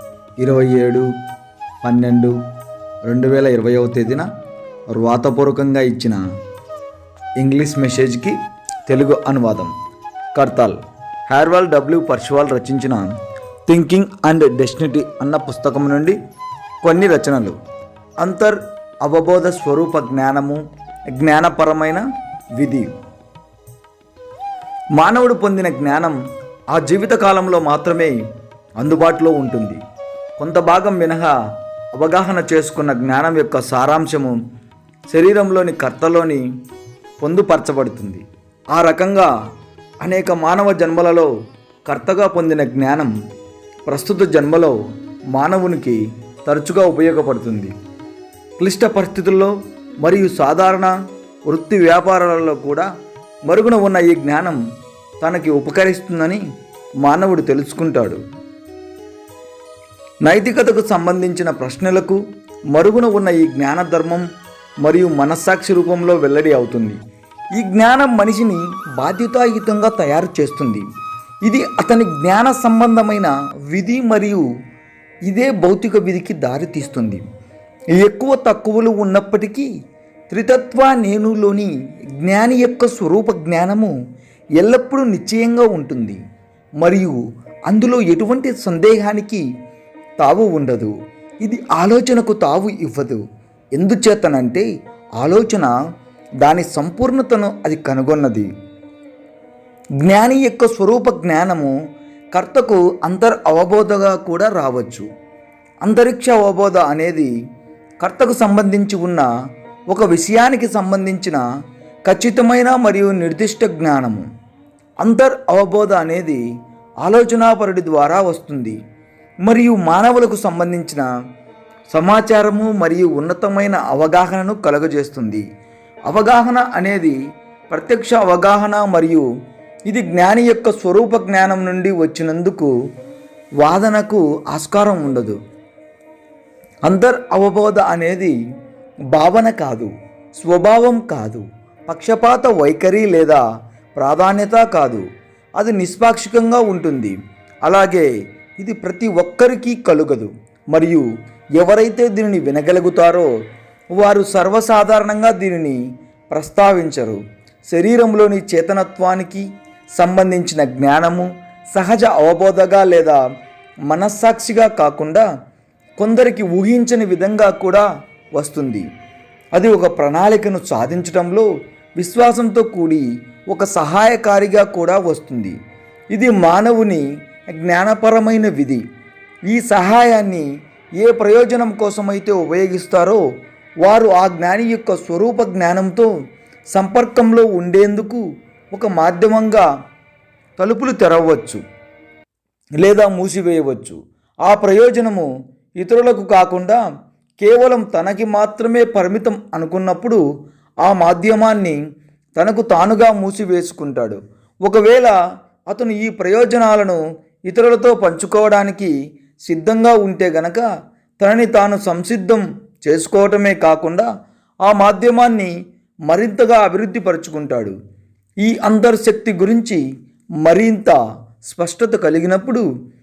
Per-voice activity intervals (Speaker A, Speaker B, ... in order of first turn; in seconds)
Speaker A: 0.4-1.1, 1.8-2.3, 3.0-4.2, 4.9-6.2, 7.4-8.3, 8.9-9.7, 10.3-10.8, 11.3-13.1, 13.7-16.2, 16.8-17.6, 18.2-20.6, 21.1-22.0, 22.6-22.9, 25.0-26.2, 26.7-28.2, 28.8-29.8, 30.4-31.3, 31.9-34.4, 35.1-36.4, 37.2-38.2, 38.7-39.3, 40.0-41.3, 41.9-43.1, 43.9-44.8, 45.3-47.7, 48.6-50.9, 51.5-52.9, 53.5-54.6, 55.2-56.4, 57.0-58.2, 60.2-62.2, 62.7-64.2, 64.8-67.0, 67.6-70.8, 71.4-74.5, 75.3-77.2, 78.0-79.7, 80.3-81.7, 82.2-83.9, 84.6-86.2, 86.8-89.4, 90.2-90.9, 91.4-93.2, 93.8-94.7, 95.2-95.7, 96.4-98.5, 100.0-101.8, 102.3-105.0, 105.8-107.3, 108.0-109.3, 109.9-111.4, 112.1-114.2, 115.0-116.4, 117.0-118.8, 119.5-121.0, 121.9-125.4, 126.1-127.2, 127.7-129.2, 129.9-132.7, 133.6-135.4, 136.8-138.3, 139.1-143.4, 144.0-145.0, 145.6-148.1, 148.6-151.0, 151.6-153.3, 153.9-155.8, 156.3-159.4, 160.0-163.2, 163.9-165.2, 166.0-167.8, 168.3-168.8, 169.5-171.5, 172.0-175.5, 176.1-177.0, 177.6-178.8, 179.5-180.4, 181.0-183.2, 183.8-186.1, 186.7-189.7, 190.6-191.6, 192.8-195.3, 195.8-196.8, 197.4-200.2, 200.8-201.8, 202.3-205.1, 205.7-207.0, 207.5-208.9, 209.5-210.6, 211.2-214.1, 214.7-215.5, 216.1-217.7, 218.4-219.8, 220.4-222.6